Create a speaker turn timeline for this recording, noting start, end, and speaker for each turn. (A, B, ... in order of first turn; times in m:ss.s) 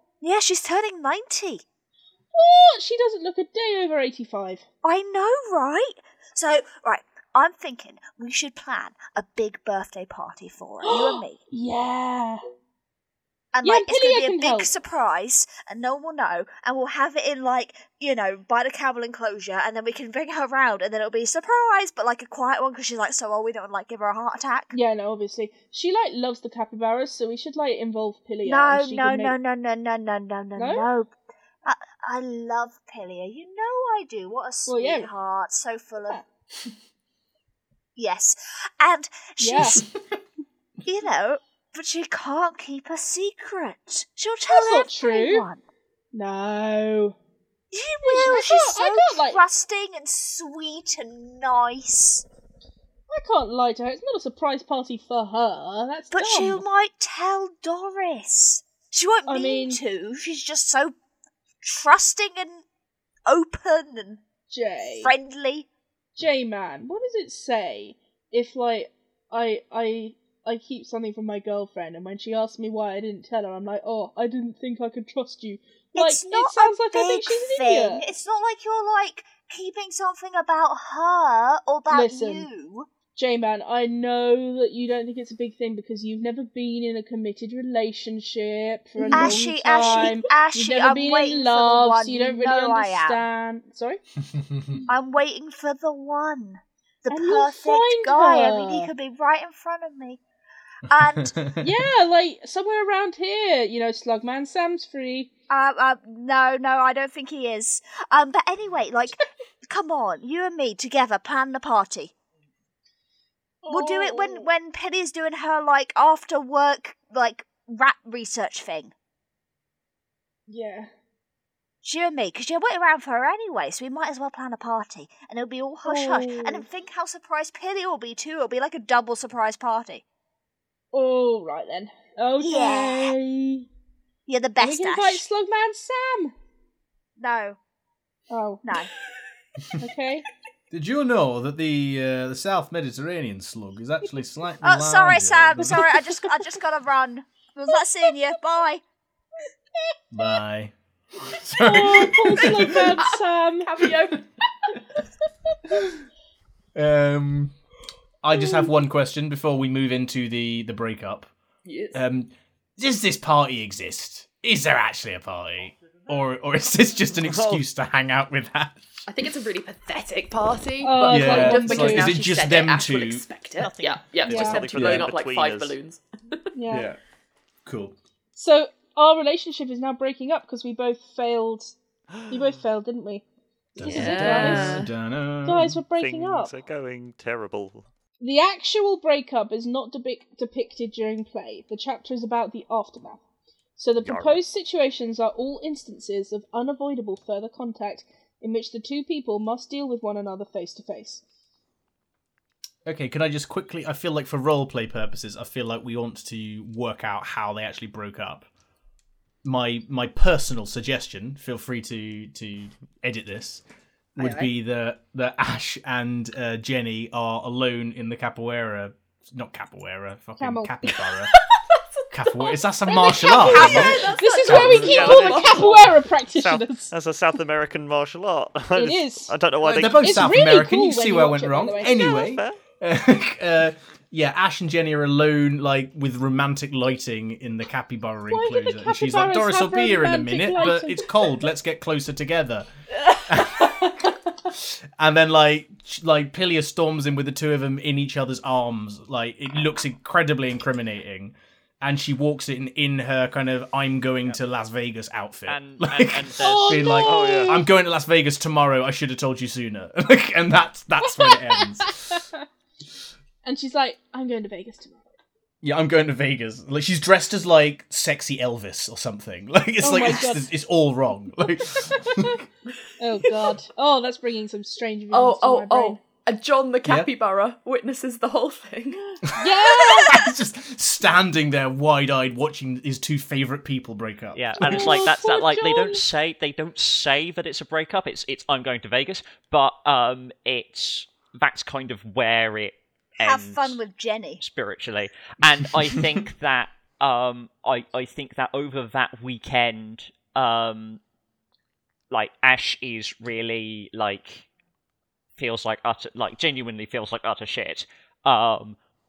0:00.2-0:01.6 A
0:02.3-0:04.6 B
0:04.8-0:11.4 A
0:10.8-0:12.4 B
0:13.5-0:24.7 A
0:13.6-0:14.7 B
0:24.7-0:29.4 B
0:28.4-0:31.1 A
0:30.6-0:30.9 B
0:31.6-0:36.2 A
0:34.6-0:35.1 B
0:38.0-0:39.9 A
0:39.4-0:39.8 B
0:40.8-0:45.6 A
0:44.5-0:45.5 B
0:46.1-0:47.2 B
0:47.7-0:52.2 A
0:48.0-0:49.4 B
0:53.1-0:56.6 B
0:56.1-1:00.9 A
0:59.2-0:59.8 B
1:01.6-1:02.6 A
1:03.2-1:04.2 A
1:04.5-1:05.1 B
1:05.0-1:05.7 A
1:06.2-1:18.0 B
1:15.9-1:22.9 A
1:21.9-1:22.5 B
1:23.2-1:34.0 B
1:29.0-1:33.2 A
1:29.0-1:30.1 C
1:34.4-1:34.7 D
1:34.9-1:40.2 A
1:37.1-1:38.9 B
1:40.9-1:41.3 A
1:41.2-1:41.7 D
1:41.6-1:45.3 B
1:45.5-1:52.1 A
1:53.6-1:54.5 B
1:53.7-1:58.9 A
2:00.5-2:00.9 B
2:01.8-2:10.0 A
2:05.8-2:06.6 B
2:10.9-2:13.6 B
2:12.4-2:13.1 A
2:14.3-2:15.2 A
2:14.6-2:16.3 B
2:17.2-2:17.6 A
2:18.3-2:18.7 B
2:19.8-2:20.3 B
2:20.7-2:26.0 D
2:24.6-2:28.8 A
2:30.1-2:33.0 D
2:31.4-2:33.8 B
2:33.6-2:34.8 C
2:36.7-2:37.5 D
2:38.2-2:41.3 D
2:41.6-2:42.0 C
2:41.9-2:49.1 D
2:47.2-2:47.6 E
2:49.1-2:56.0 C
2:50.8-2:52.2 B
2:51.1-2:53.2 D
2:53.6-2:54.1 F
2:54.2-2:55.8 E
2:54.2-2:54.6 B
2:54.6-2:55.1 D
2:56.5-2:56.9 B
2:56.7-2:57.0 D
2:57.6-2:58.0 D
2:58.4-3:01.7 B
3:02.3-3:03.2 B
3:03.8-3:05.8 D
3:03.8-3:04.9 B
3:03.8-3:04.9 C
3:05.4-3:06.5 B
3:06.0-3:07.9 E
3:08.2-3:13.2 B
3:13.8-3:21.2 B
3:14.0-3:14.4 E
3:22.8-3:28.5 D
3:29.4-3:33.6 D
3:34.2-3:41.4 D
3:34.2-3:34.5 C
3:40.4-3:40.9 B
3:41.3-3:46.0 C
3:42.1-3:45.2 D
3:42.9-3:46.9 B
3:44.5-3:50.4 E
3:48.7-3:49.3 B
3:49.6-4:02.7 D
3:49.9-3:52.1 B
3:51.8-3:52.6 E
3:58.3-4:01.3 B
4:03.2-4:22.2 D
4:15.5-4:16.9 F
4:16.4-4:17.6 B
4:17.0-4:17.6 E
4:21.0-4:22.4 B
4:23.4-4:25.1 B
4:25.6-4:32.4 D
4:29.8-4:30.5 B
4:31.9-4:32.3 B
4:33.0-4:36.0 B
4:35.1-4:39.1 C
4:36.8-4:37.1 D
4:39.3-4:45.1 D
4:39.3-4:40.3 B
4:44.3-4:53.8 F
4:44.6-4:46.0 B
4:53.2-4:54.4 A
4:54.4-5:01.0 F
5:02.1-5:04.4 F
5:05.4-5:08.8 F